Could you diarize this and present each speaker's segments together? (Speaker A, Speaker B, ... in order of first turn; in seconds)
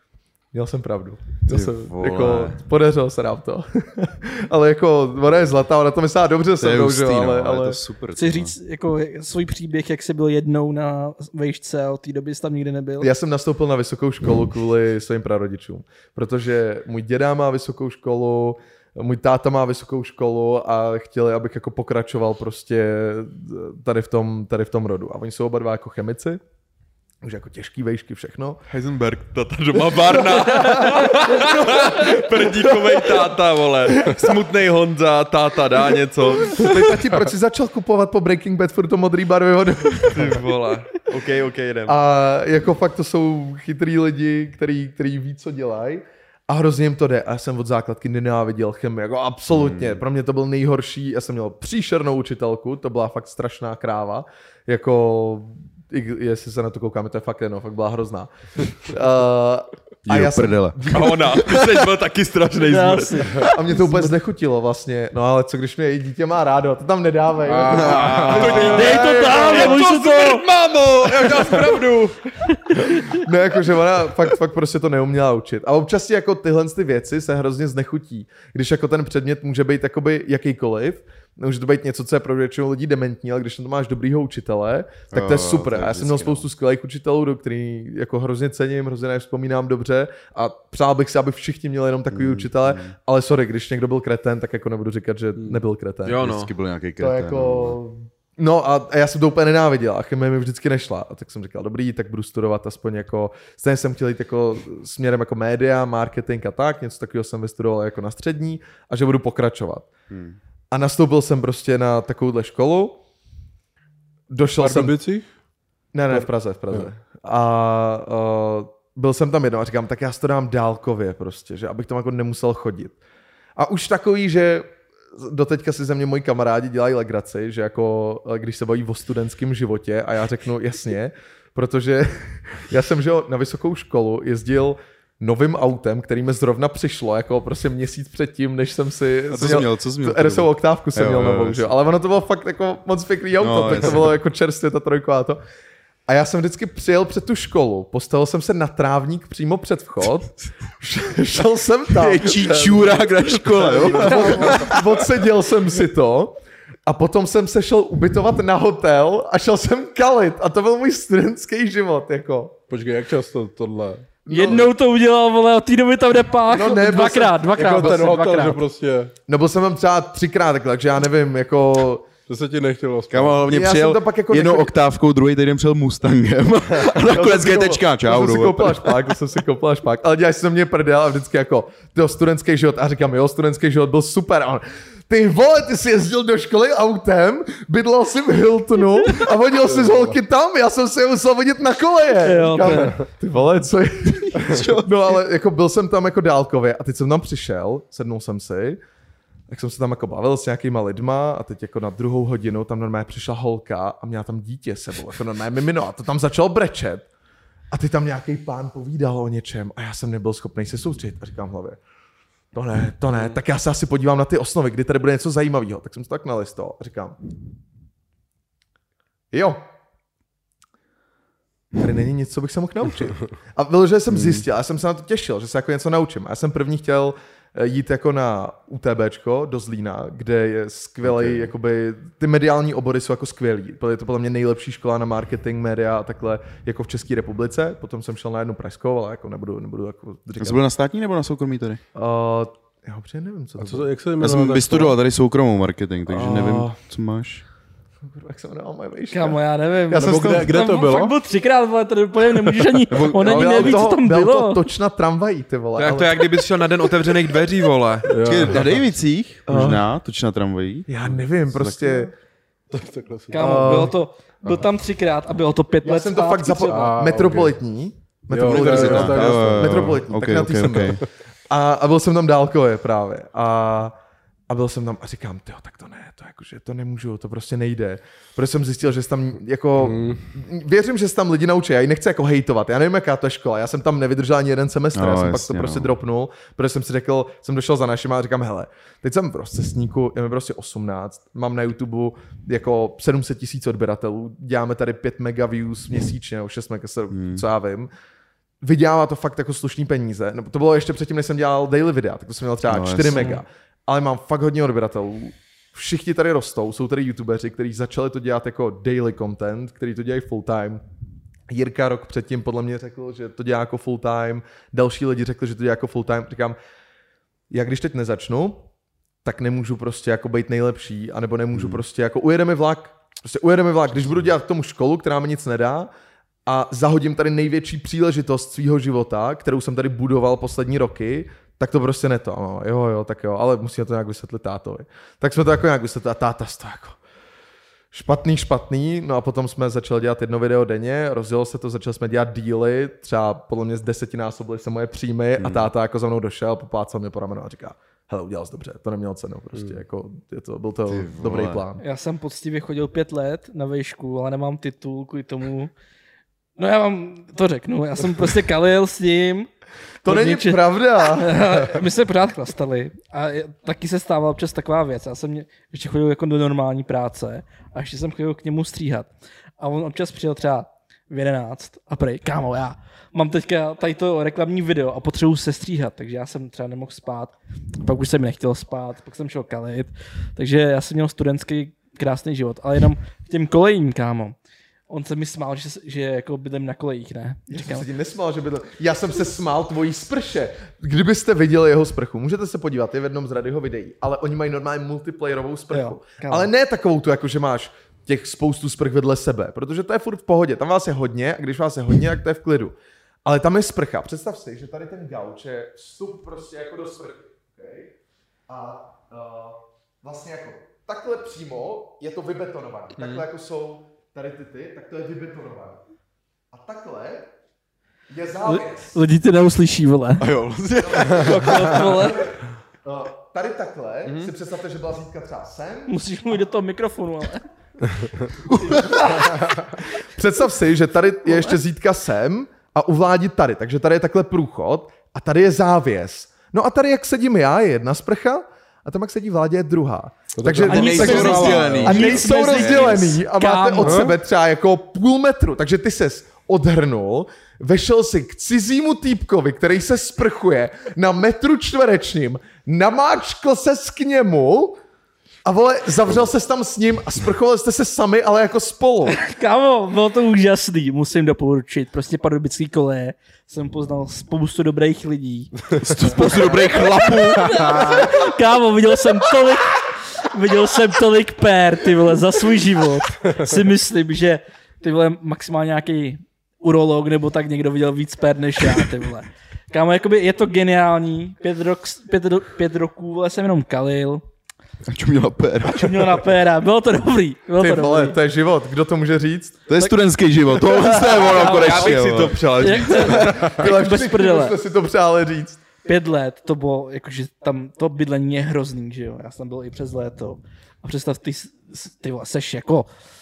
Speaker A: 0.5-7.8, 13.0-26.4, 27.2-28.6, 30.1-33.2, 33.9-34.4, 36.5-40.4, 41.9-61.7, 63.4-69.8, 72.9-96.2, 97.0-109.9, 110.7-113.0, 114.3-115.0, 115.9-123.0, 123.6-145.4, 146.1-153.0, 153.8-162.6, 164.2-164.7, 166.5-168.2, 169.3-172.1, 173.5-174.7, 177.0-198.8, 199.5-207.1, 207.7-211.8, 212.5-217.2, 219.3-219.7, 221.8-240.6, 241.9-243.9, 246.1-246.8, 248.1-250.5, 252.9-256.3, 259.5-259.9, 260.9-262.1, 263.3-263.9, 265.8-273.9, 274.5-297.9, 298.6-310.8, 311.5-316.6, 317.5-318.7, 319.2-325.9, 326.5-337.0, 337.9-351.8, 360.0-361.8, 387.5-407.9, 408.5-415.8, 416.5-417.3, 418.1-419.0, 420.8-426.0, 428.4-454.8, 455.4-459.2, 487.6-489.6, 492.8-495.6
Speaker B: 1.5-2.6, 6.6-8.6, 49.5-50.0, 60.1-60.8, 67.7-69.0, 85.1-86.5, 92.1-93.0, 96.1-97.8, 110.1-110.4, 139.3-141.7, 143.4-144.1, 151.9-154.9, 173.1-179.1, 194.5-194.8, 231.0-231.5, 240.4-241.8, 244.2-247.4, 253.0-253.8, 258.2-260.9, 261.6-262.0, 268.5-271.0, 284.9-285.9, 297.1-297.4, 302.7-303.4, 321.5-321.8, 345.4-345.7, 350.9-351.7, 420.2-422.0, 440.6-443.0, 465.8-468.2, 484.9-486.3, 489.7-493.5
Speaker C: 8.1-13.1, 62.6-64.1, 68.5-70.5, 72.5-73.2, 164.3-168.6, 192.2-193.0, 249.1-254.6, 263.3-266.9, 351.8-355.7, 356.6-359.5, 360.1-384.4, 384.9-387.9, 395.7-396.5, 418.4-420.3, 421.2-422.3, 425.9-427.5, 440.7-444.1, 459.1-484.2, 485.6-488.2, 489.8-494.6, 495.8-502.9
Speaker D: 28.7-36.6, 40.0-42.0, 60.9-63.5, 67.8-72.2, 96.1-96.5, 213.1-213.4, 255.8-258.6, 413.0-413.3, 424.1-424.3, 491.0-493.2
Speaker E: 67.5-68.7, 95.4-95.6, 114.6-115.3, 116.1-116.9, 153.4-154.7, 162.7-164.2, 167.6-169.1, 172.3-173.4, 189.7-190.2, 192.6-192.9, 194.4-194.7, 243.6-245.0, 249.9-251.2, 258.1-258.9, 262.7-263.9, 266.7-267.6, 268.3-270.0, 279.8-280.3, 440.4-442.0, 443.8-444.1